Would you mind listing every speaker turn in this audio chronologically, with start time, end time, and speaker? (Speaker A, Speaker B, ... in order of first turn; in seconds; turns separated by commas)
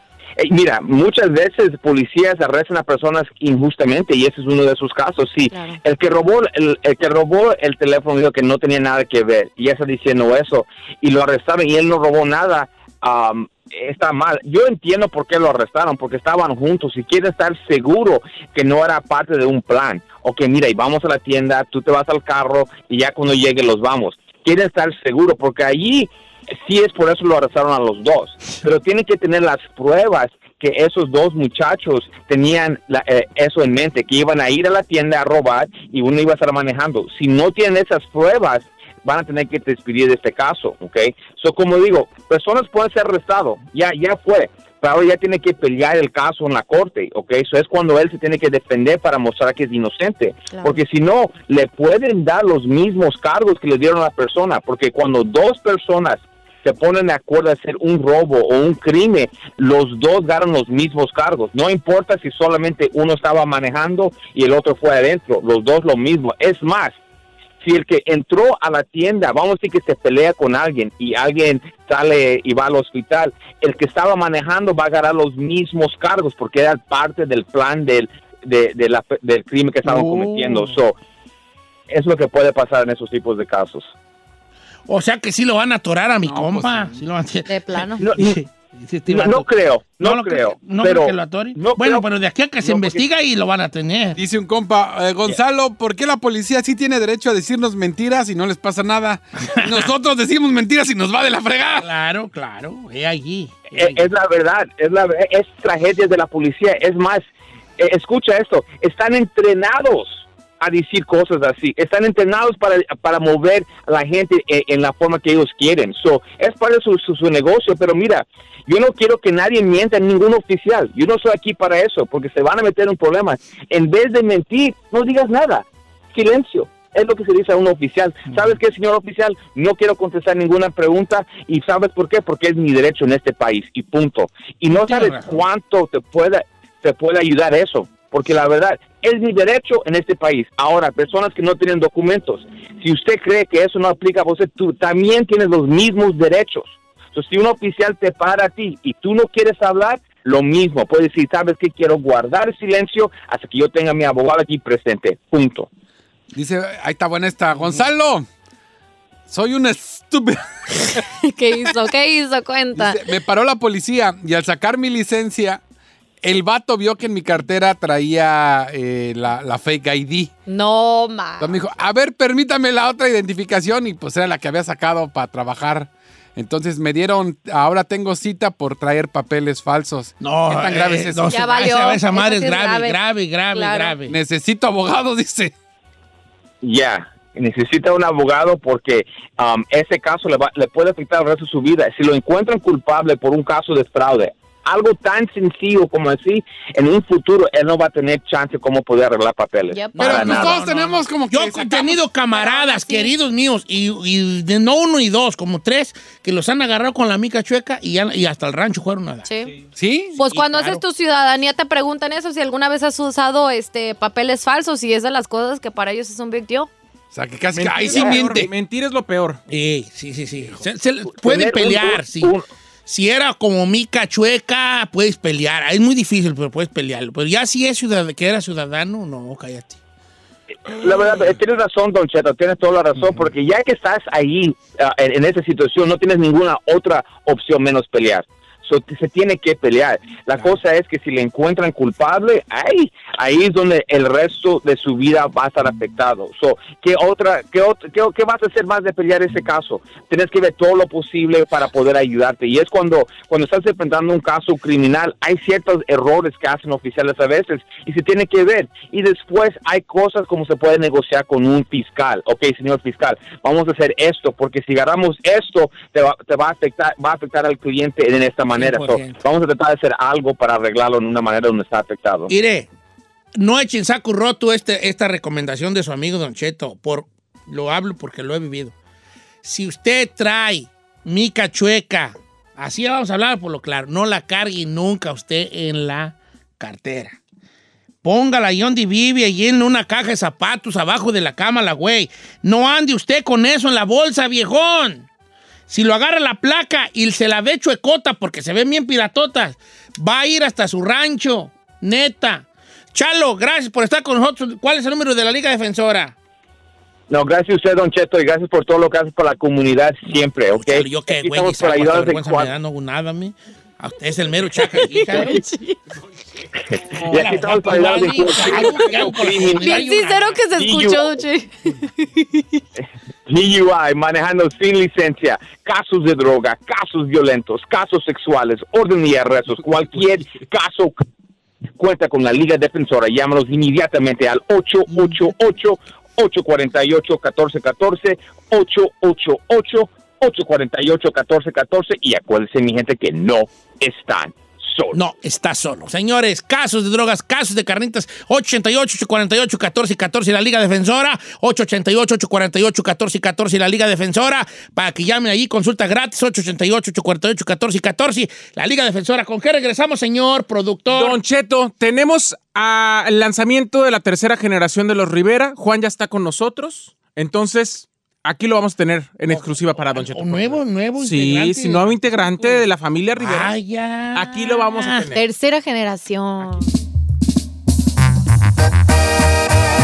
Speaker A: 0.4-26.1, Speaker B: 5.5-5.8, Speaker A: 26.6-66.9, Speaker A: 67.6-80.9, Speaker C: 79.8-80.8, Speaker A: 81.9-83.9, Speaker C: 84.9-87.5, Speaker D: 86.2-86.9, Speaker B: 87.5-88.0, Speaker A: 88.0-88.4, Speaker C: 88.1-89.5, Speaker A: 89.1-92.0, Speaker C: 90.0-94.2, Speaker A: 92.6-93.0, Speaker D: 94.2-101.9, Speaker C: 99.6-99.9, Speaker C: 101.8-104.0, Speaker A: 103.7-107.2, Speaker A: 107.8-155.7, Speaker C: 134.7-135.4, Speaker D: 156.3-158.3, Speaker D: 159.3-161.0, Speaker B: 161.2-163.0, Speaker D: 162.7-165.6, Speaker D: 166.2-170.3, Speaker B: 170.5-171.6, Speaker D: 171.4-181.6, Speaker C: 180.2-184.1, Speaker B: 181.3-182.9, Speaker B: 183.5-183.9, Speaker D: 184.1-185.5, Speaker A: 186.6-200.6, Speaker B: 199.7-200.3, Speaker C: 199.9-209.3, Speaker D: 200.0-202.0, Speaker B: 202.3-203.1, Speaker B: 209.2-209.6, Speaker D: 209.6-210.2, Speaker B: 210.2-216.7, Speaker C: 210.2-210.8, Speaker D: 217.1-218.5, Speaker C: 217.6-218.5, Speaker E: 217.6-219.4, Speaker C: 219.5-222.3, Speaker A: 221.1-222.4, Speaker C: 222.9-229.8, Speaker A: 230.7-272.3, Speaker C: 233.0-233.3, Speaker C: 268.6-269.2, Speaker C: 272.3-272.7, Speaker C: 273.4-278.7, Speaker C: 279.4-287.2, Speaker C: 288.0-295.1, Speaker C: 295.7-306.1, Speaker A: 307.1-312.5, Speaker C: 310.1-315.4, Speaker B: 314.9-315.7, Speaker A: 317.0-319.8, Speaker C: 317.1-320.4, Speaker B: 319.6-322.4, Speaker A: 320.4-321.2, Speaker A: 323.3-331.0, Speaker A: 331.8-345.0, Speaker C: 334.9-335.2, Speaker C: 344.9-361.2, Speaker E: 360.9-373.5, Speaker C: 369.3-375.1, Speaker E: 374.1-375.2, Speaker B: 375.1-376.6